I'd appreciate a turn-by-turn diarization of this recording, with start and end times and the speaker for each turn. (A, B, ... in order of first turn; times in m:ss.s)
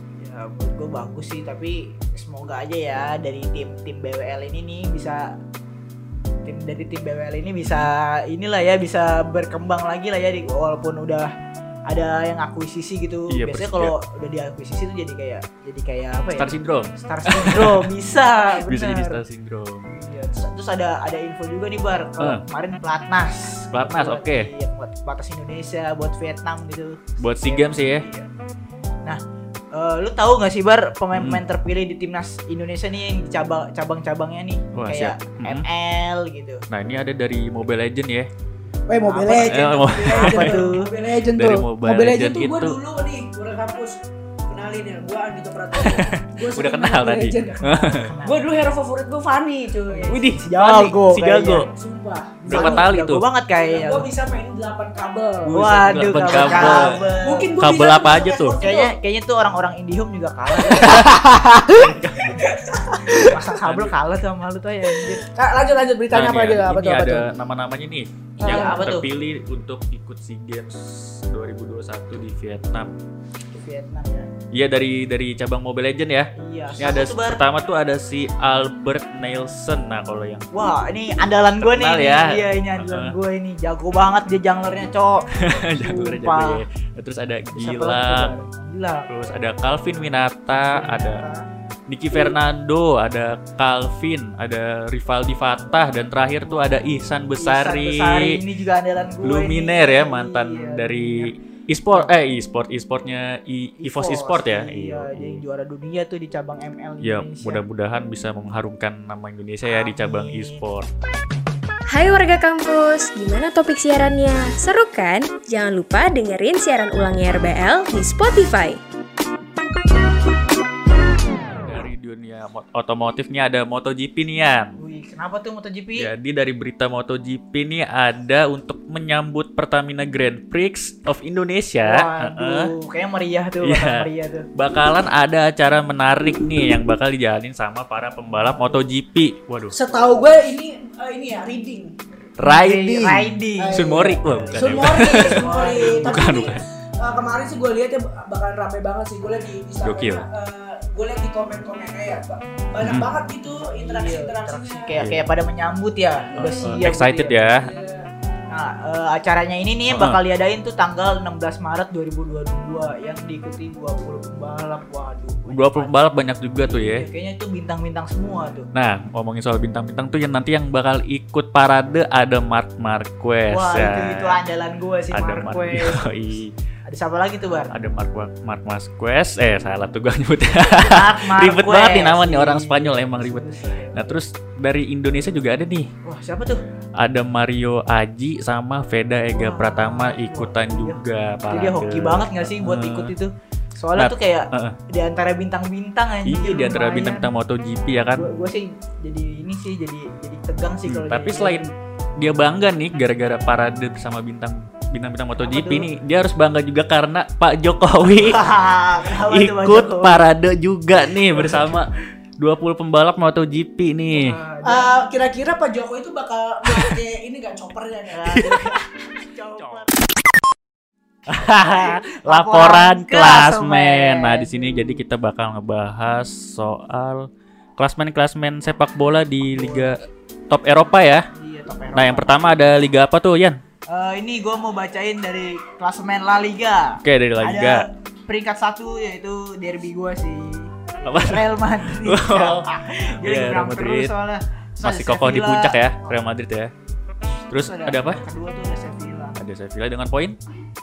0:00.2-0:05.3 A
0:06.4-0:11.3 A
0:11.9-0:19.2 A
0:13.3-0:14.0 B
0:16.4-0:17.9 B
0:18.5-0:19.9 B
0:19.9-0:28.3 A
0:22.2-0:22.4 B
0:23.7-0:24.5 B
0:27.2-0:28.0 B
0:29.7-0:36.6 A
0:31.1-0:31.4 B
0:34.7-0:35.7 B
0:36.7-0:38.3 B
0:38.9-0:50.9 C
0:39.0-0:40.9 A
0:39.4-0:40.8 B
0:41.3-0:42.8 B
0:45.8-0:48.0 B
0:47.6-0:48.4 A
0:49.9-0:51.7 A
0:50.1-0:51.7 B
0:51.7-0:52.9 C
0:52.4-0:53.2 B
0:52.5-0:54.1 A
0:53.6-0:55.6 C
0:55.5-0:57.0 B
0:55.5-0:57.5 A
0:56.2-0:58.9 C
0:57.6-0:58.6 B
0:58.6-1:01.8 A
1:01.7-1:02.4 B
1:02.4-1:03.4 C
1:03.2-1:05.3 A
1:03.6-1:04.0 B
1:05.1-1:07.3 C
1:06.1-1:12.9 B
1:08.4-1:09.1 A
1:08.4-1:08.8 C
1:13.5-1:14.3 A
1:14.5-1:20.7 B
1:16.4-1:17.4 A
1:20.5-1:26.6 A
1:21.6-1:23.2 B
1:25.4-1:28.4 B
1:27.5-1:29.1 A
1:29.1-1:31.2 B
1:30.5-1:31.4 A
1:31.9-1:38.4 B
1:36.4-1:41.4 A
1:39.2-1:45.4 B
1:43.8-1:47.6 A
1:47.0-1:50.9 B
1:49.6-1:50.6 A
1:51.9-1:58.8 D
2:01.6-2:04.8 B
2:04.8-2:06.1 A
2:06.0-2:12.7 B
2:11.8-2:14.5 A
2:13.6-2:19.8 B
2:18.4-2:18.8 A
2:19.7-2:21.9 C
2:22.4-2:26.6 B
2:22.4-2:26.5 A
2:23.6-2:35.0 C
2:29.8-2:30.2 B
2:32.8-2:33.1 B
2:33.5-2:37.4 A
2:35.0-2:35.2 B
2:36.4-2:37.7 B
2:37.5-2:38.1 C
2:38.5-2:46.0 A
2:39.9-2:40.2 B
2:45.5-2:47.1 B
2:46.6-2:48.7 A
2:48.7-2:54.4 B
2:53.5-2:56.4 A
2:55.1-2:56.5 B
2:56.9-2:57.7 A
2:57.7-3:05.9 B
3:00.8-3:04.2 A
3:06.0-3:06.6 A
3:07.0-3:13.1 B
3:09.3-3:17.3 A
3:14.0-3:14.8 B
3:16.2-3:18.3 B
3:18.1-3:21.7 A
3:20.9-3:28.5 B
3:25.4-3:25.9 A
3:28.1-3:30.3 A
3:29.1-3:31.9 B
3:31.4-3:31.7 A
3:32.4-3:34.4 B
3:34.1-3:34.9 A
3:34.6-3:38.5 C
3:38.2-3:39.9 A
3:41.3-3:47.3 B
3:41.6-3:45.0 A
3:47.8-3:51.3 B
3:49.4-3:49.9 A
3:51.3-3:52.6 A
3:51.9-3:53.6 B
3:53.9-4:07.0 A
3:57.0-3:57.9 B
4:01.0-4:04.1 B
4:04.8-4:06.7 B
4:07.5-4:08.2 B
4:07.6-4:09.4 A
4:09.4-4:10.4 B